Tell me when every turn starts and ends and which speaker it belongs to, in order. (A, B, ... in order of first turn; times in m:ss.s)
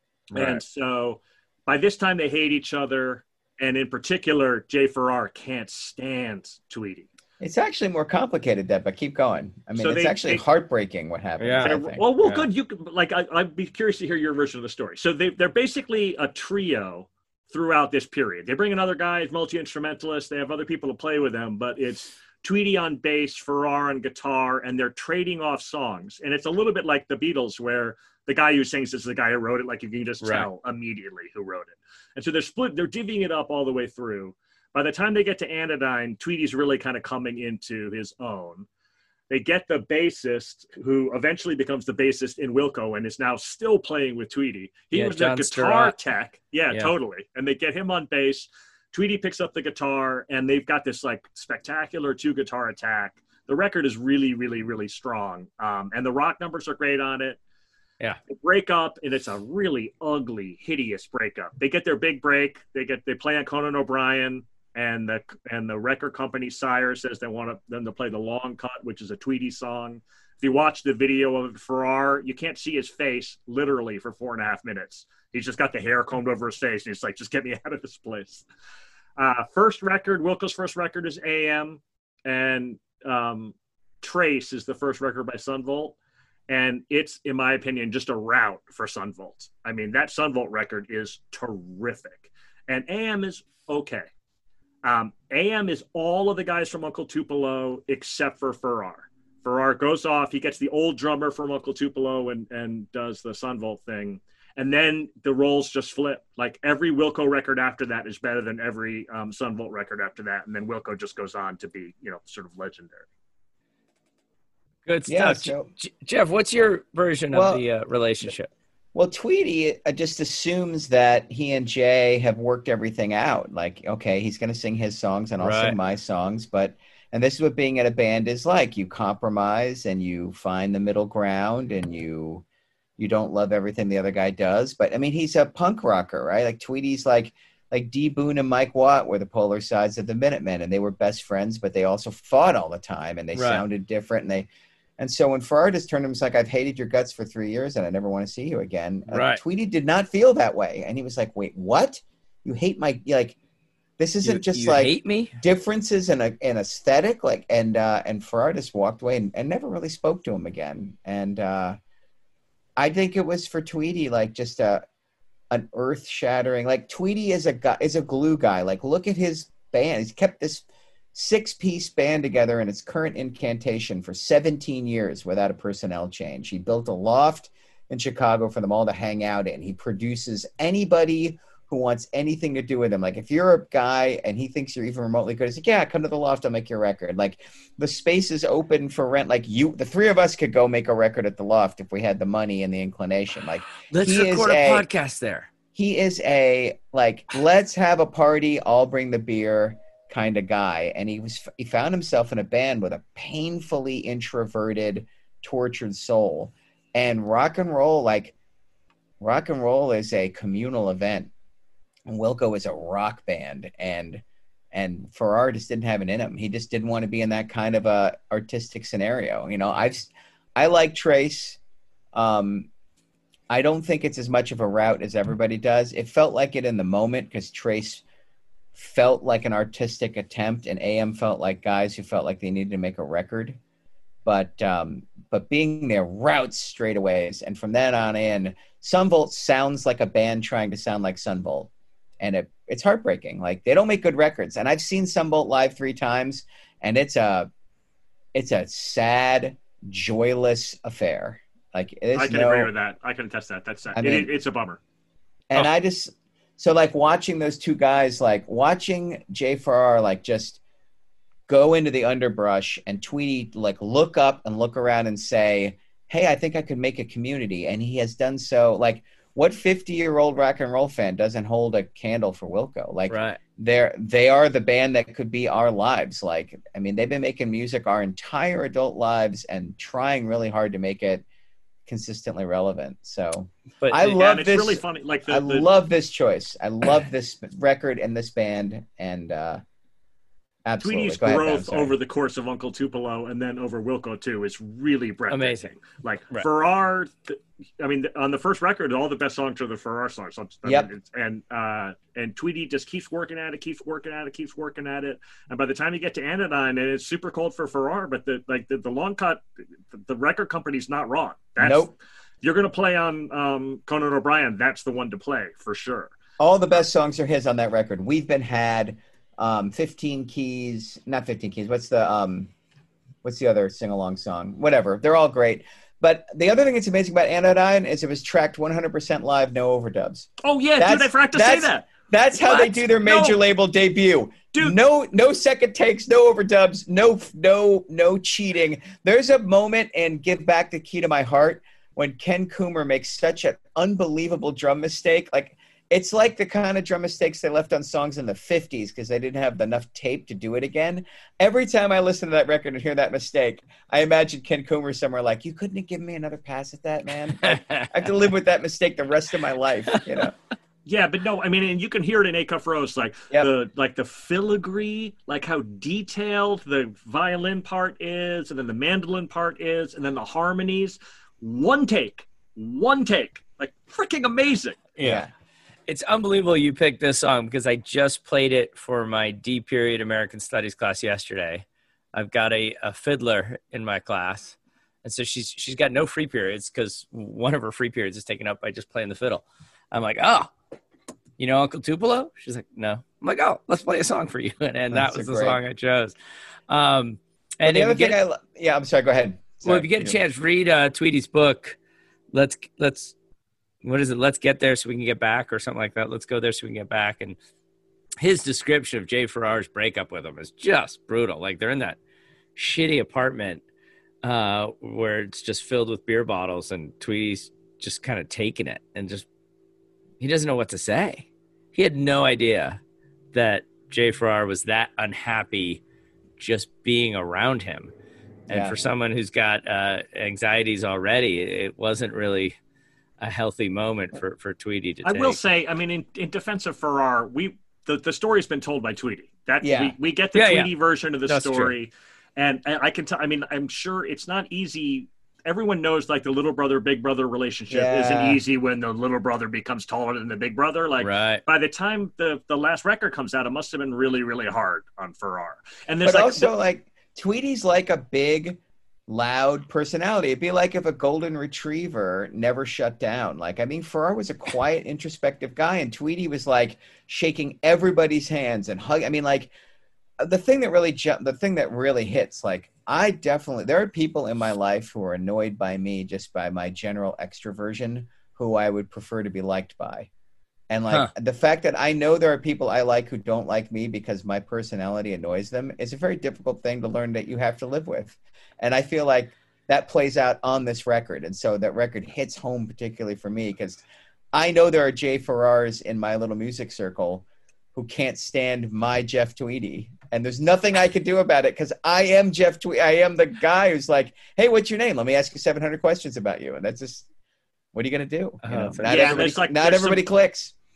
0:00.3-0:00.6 A
0:00.3-0:07.1 B
0:07.4-0:12.0 C
0:09.8-0:10.4 B
0:11.4-0:12.5 A
0:11.6-0:38.7 B
0:30.2-0:30.5 A
0:39.3-0:57.4 B
0:44.9-0:45.9 A
0:58.3-1:18.4 B
1:19.2-1:26.0 B
1:26.5-1:34.1 B
1:34.8-1:53.0 B
1:54.8-1:58.5 A
1:55.1-1:55.7 C
1:57.3-1:57.6 C
1:58.9-2:12.4 C
2:05.4-2:05.8 A
2:13.0-2:33.4 C
2:23.3-2:23.6 A
2:29.1-2:29.4 A
2:34.0-2:41.8 C
2:34.2-2:35.3 A
2:42.8-2:44.8 C
2:45.5-3:14.8 C
3:13.9-3:15.5 A
3:15.7-3:28.3 C
3:29.2-3:31.3 C
3:32.1-3:41.6 C
3:42.1-3:42.7 C
3:43.5-3:48.0 C
3:48.7-3:53.6 C
3:54.2-4:07.5 C
4:08.3-4:12.7 C
4:12.1-4:14.8 B
4:13.9-4:14.3 C
4:15.5-4:20.6 C
4:21.5-4:41.2 C
4:33.1-4:33.4 A
4:41.9-4:49.6 C
4:43.8-4:44.0 A
4:44.0-4:45.7 B
4:50.6-4:52.0 C
4:50.8-5:16.1 B
4:55.3-4:55.7 A
5:00.6-5:00.9 C
5:11.6-5:11.9 C
5:16.4-5:22.5 C
5:23.2-6:00.3 C
5:30.4-5:33.4 B
5:57.4-5:58.1 A
6:00.8-6:14.8 B
6:15.0-6:15.2 A
6:15.0-6:15.3 C
6:15.9-6:30.5 A
6:31.4-6:36.2 A
6:34.9-6:35.6 C
6:36.7-6:38.2 A
6:37.6-6:40.2 C
6:39.6-6:41.8 A
6:42.3-6:43.1 A
6:43.8-6:47.4 A
6:48.2-6:52.0 A
6:52.6-6:53.6 A
6:54.2-6:59.2 A
7:00.2-7:02.8 A
7:03.3-7:05.8 A
7:06.4-7:07.9 A
7:08.5-7:08.8 C
7:08.5-7:12.6 A
7:13.2-7:15.4 A
7:15.0-7:36.5 B
7:19.6-7:19.9 C
7:20.3-7:20.7 A
7:21.3-7:21.8 A
7:27.7-7:28.4 C
7:31.0-7:31.4 A
7:36.0-7:49.5 C
7:50.2-8:00.1 C
8:00.7-8:27.0 C
8:27.7-8:30.5 C
8:28.4-8:29.3 A
8:28.8-8:30.0 B